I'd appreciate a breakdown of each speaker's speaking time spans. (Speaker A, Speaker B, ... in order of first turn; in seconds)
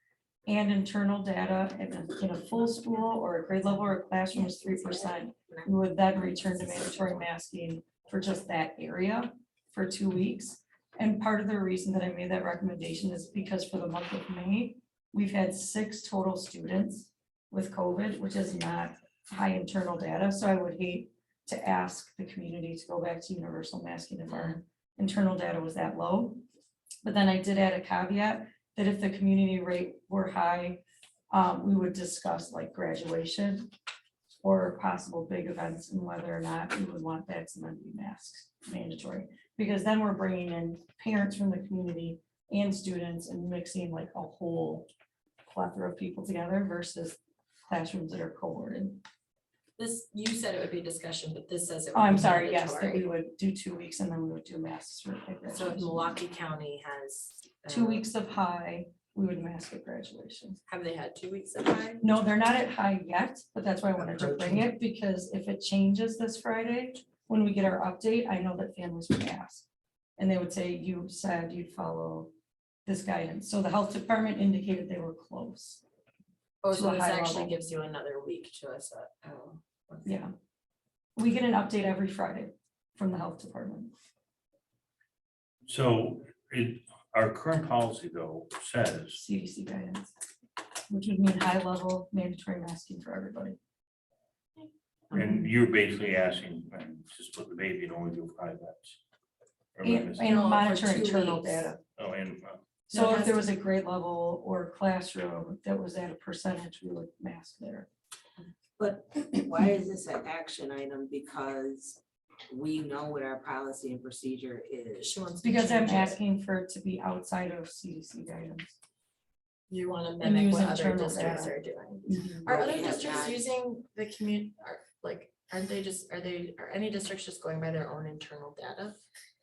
Speaker A: 0.5-26.4, 27.0-33.7, 34.4-44.9, 45.4-49.0, 51.9-56.2, 57.7-60.6, 62.0-69.7, 70.2-72.3, 72.8-75.8, 76.7-77.6, 80.0-80.3, 81.2-83.9, 89.1-90.1, 90.9-93.6, 99.8-101.8, 102.9-107.9, 115.4-118.8, 120.2-122.8
Speaker B: 49.8-53.0, 55.5-58.0, 60.7-62.0, 64.0-64.7, 76.6-80.2, 100.2-101.8, 102.9-103.4, 115.0-116.2, 119.7-129.0
Speaker C: 85.7-89.2, 95.1-98.9, 99.7-100.3, 102.0-102.6
Speaker D: 108.8-115.2, 122.4-123.4